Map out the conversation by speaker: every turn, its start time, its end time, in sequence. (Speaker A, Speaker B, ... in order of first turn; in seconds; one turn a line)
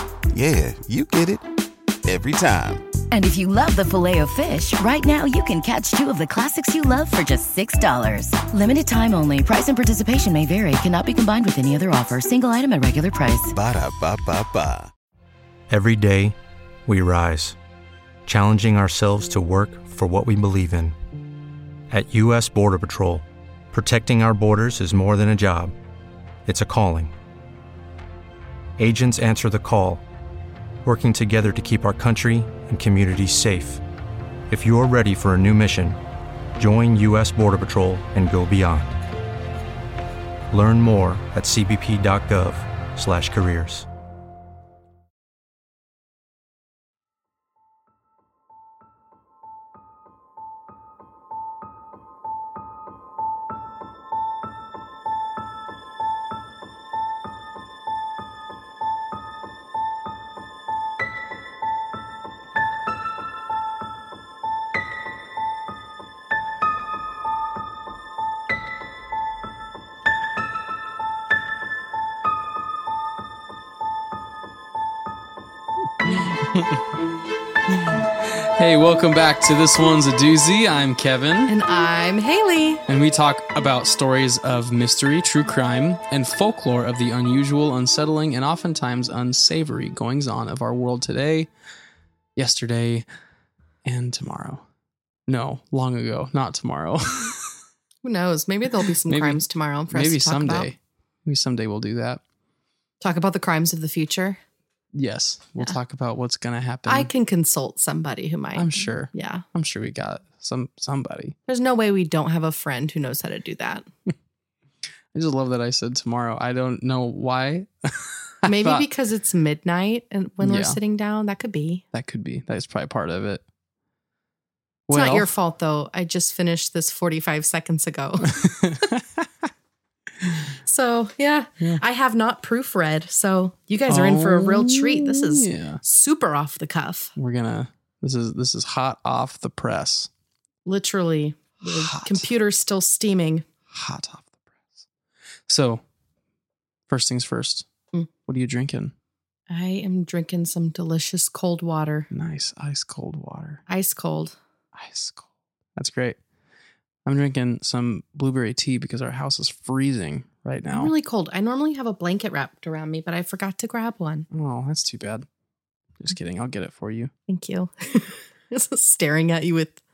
Speaker A: 0.3-1.4
Speaker A: 2.0-2.8
Speaker B: 3.1-13.5
Speaker A: 13.5-14.9
Speaker C: 15.7-16.3
Speaker C: 16.9-17.6
Speaker C: 18.2-20.9
Speaker C: 21.9-25.7
Speaker C: 26.4-27.1
Speaker C: 28.8-30.0
Speaker C: 30.8-33.8
Speaker C: 34.5-36.0
Speaker C: 36.6-39.0
Speaker C: 40.5-43.9
Speaker D: 76.0-76.8
Speaker D: 77.7-81.5
Speaker E: 81.5-82.8
Speaker D: 82.9-91.5
Speaker D: 92.3-93.0
Speaker D: 93.8-94.6
Speaker D: 95.3-97.5
Speaker E: 98.0-100.7
Speaker D: 99.1-102.2
Speaker E: 103.0-104.4
Speaker D: 104.9-107.1
Speaker E: 106.8-109.4
Speaker D: 108.5-111.3
Speaker E: 111.5-113.9
Speaker D: 115.1-118.8
Speaker E: 118.4-121.8
Speaker D: 120.4-120.8
Speaker D: 121.9-123.4
Speaker D: 124.9-125.3
Speaker E: 124.9-128.6
Speaker D: 128.2-129.2
Speaker E: 130.7-137.1
Speaker D: 133.9-135.8
Speaker D: 137.2-140.1
Speaker E: 140.7-143.4
Speaker D: 141.6-142.2
Speaker D: 143.7-144.3
Speaker D: 145.5-145.8
Speaker D: 146.9-147.7
Speaker D: 148.2-148.9
Speaker E: 149.5-152.1
Speaker D: 152.1-153.6
Speaker E: 153.7-154.3
Speaker D: 154.7-156.2
Speaker D: 157.1-160.9
Speaker E: 160.7-164.3
Speaker D: 164.3-165.2
Speaker D: 166.0-167.1
Speaker E: 167.3-169.8